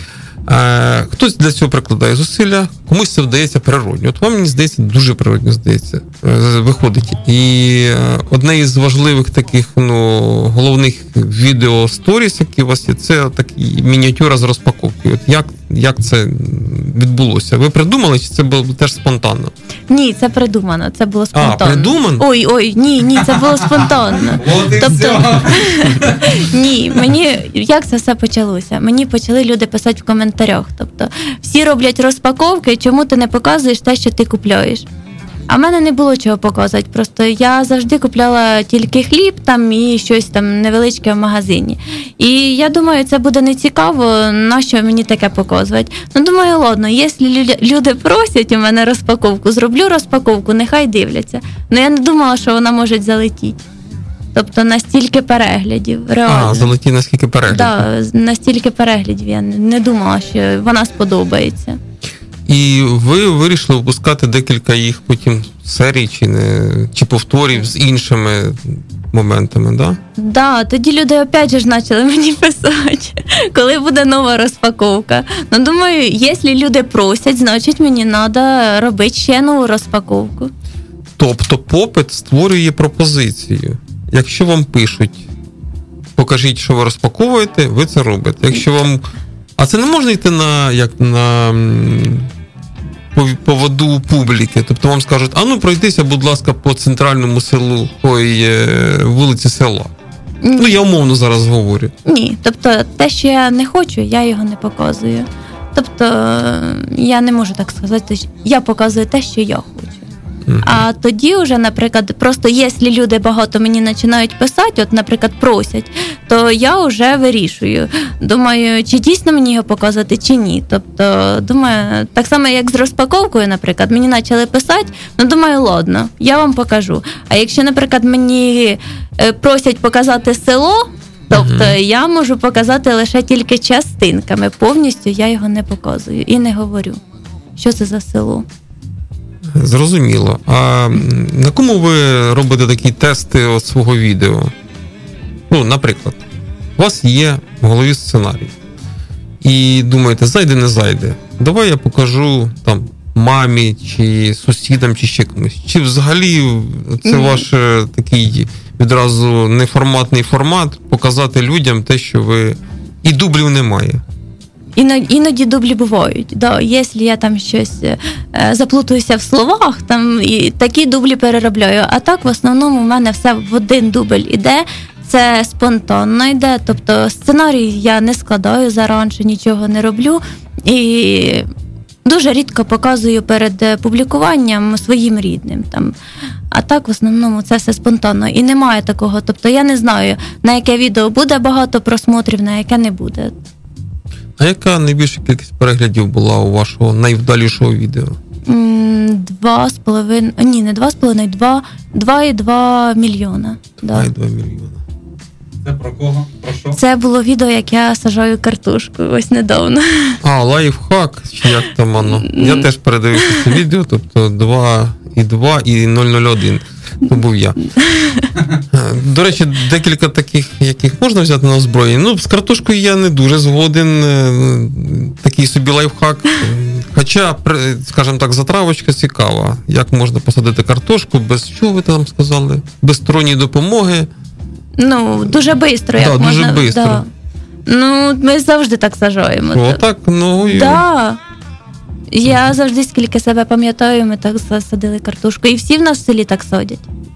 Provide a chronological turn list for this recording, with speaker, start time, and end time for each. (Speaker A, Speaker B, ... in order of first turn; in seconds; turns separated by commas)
Speaker A: 0.5-19.5, Speaker B: 19.9-34.9, Speaker A: 21.3-22.3, Speaker C: 24.3-26.4, Speaker B: 35.5-53.6, Speaker B: 54.4-56.7, Speaker A: 56.2-57.9, Speaker B: 57.5-61.8, Speaker A: 62.5-70.0, Speaker B: 70.2-80.5, Speaker A: 81.2-85.2, Speaker A: 86.2-92.3, Speaker A: 93.1-99.9, Speaker B: 100.4-100.8, Speaker A: 100.6-101.9, Speaker B: 102.1-110.1, Speaker A: 110.5-110.8, Speaker B: 110.6-137.0, Speaker A: 131.3-131.8, Speaker B: 137.6-138.5, Speaker A: 139.5-144.5, Speaker A: 145.5-146.2, Speaker A: 146.8-148.5, Speaker A: 149.4-164.0, Speaker B: 157.1-157.4, Speaker B: 164.8-181.5, Speaker B: 182.1-185.9, Speaker B: 186.5-193.4, Speaker A: 194.4-198.2, Speaker B: 198.5-204.1, Speaker A: 203.9-204.8, Speaker C: 205.6-206.8, Speaker B: 206.8-210.2, Speaker A: 210.2-217.6, Speaker B: 212.1-212.7, Speaker B: 217.8-218.3, Speaker A: 218.7-234.1, Speaker B: 234.8-237.1, Speaker A: 236.0-237.0, Speaker B: 237.7-239.8, Speaker A: 239.5-240.8, Speaker B: 240.4-241.2, Speaker B: 242.1-246.9